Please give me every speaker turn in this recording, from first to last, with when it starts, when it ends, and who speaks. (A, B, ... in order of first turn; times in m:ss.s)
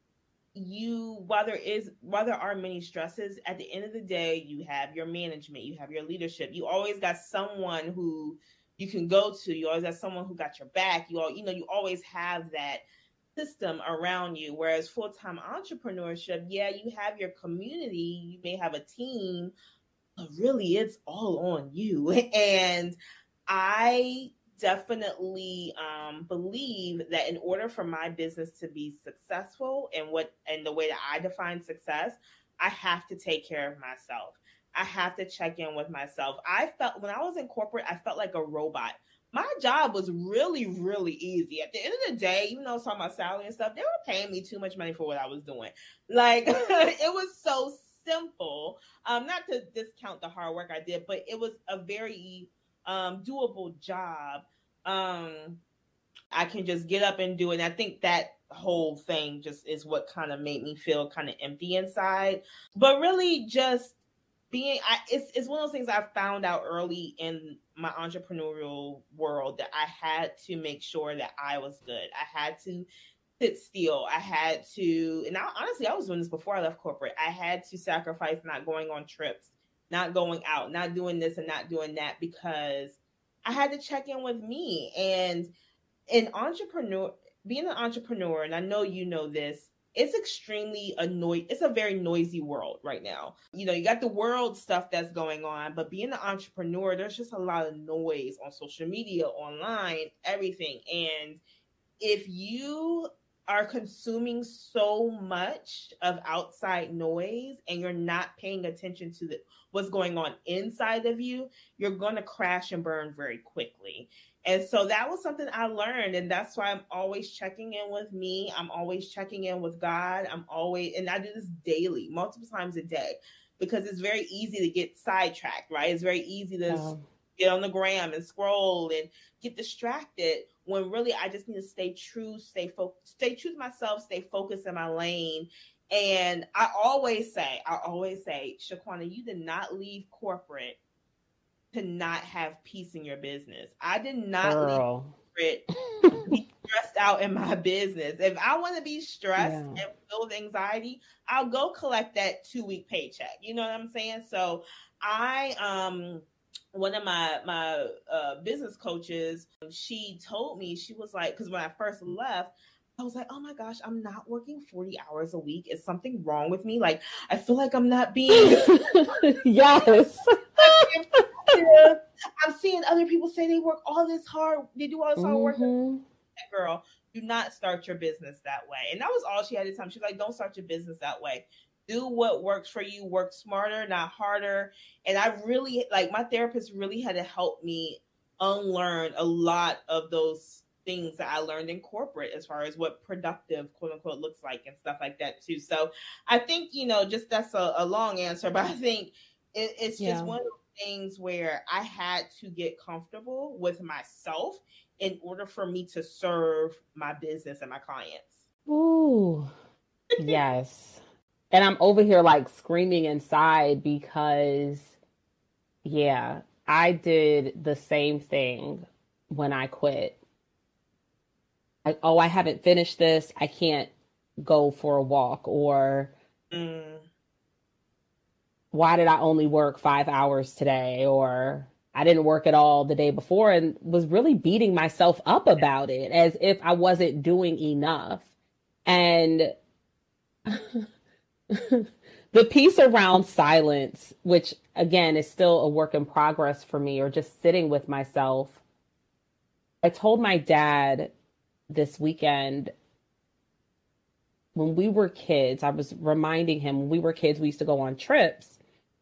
0:00.6-0:12.8 A
0:13.4-0:19.5 A
0:20.2-0:23.0 A
0:23.5-0:55.6 A
0:56.3-1:04.0 A
1:04.5-1:12.9 A
1:13.4-1:25.5 A
1:26.1-1:41.4 A
1:42.0-2:20.8 A
2:06.7-2:07.0 B
2:21.7-2:24.8 A
2:24.4-2:25.2 B
2:25.4-2:25.6 A
2:26.0-2:26.3 B
2:26.3-2:48.8 A
2:29.4-2:29.8 B
2:48.3-2:51.6 B
2:50.6-2:55.7 A
2:55.2-2:56.0 B
2:56.4-3:28.4 A
3:20.0-3:20.4 B
3:28.7-3:29.5 B
3:30.2-3:31.0 B
3:31.5-3:34.9 B
3:35.8-3:40.2 B
3:41.8-3:46.1 B
3:46.5-3:47.1 A
3:48.7-3:58.3 B
3:58.9-3:59.5 B
4:00.5-4:00.8 B
4:01.5-4:08.6 B
4:09.8-4:11.1 B
4:11.7-4:12.7 B
4:14.6-4:18.6 B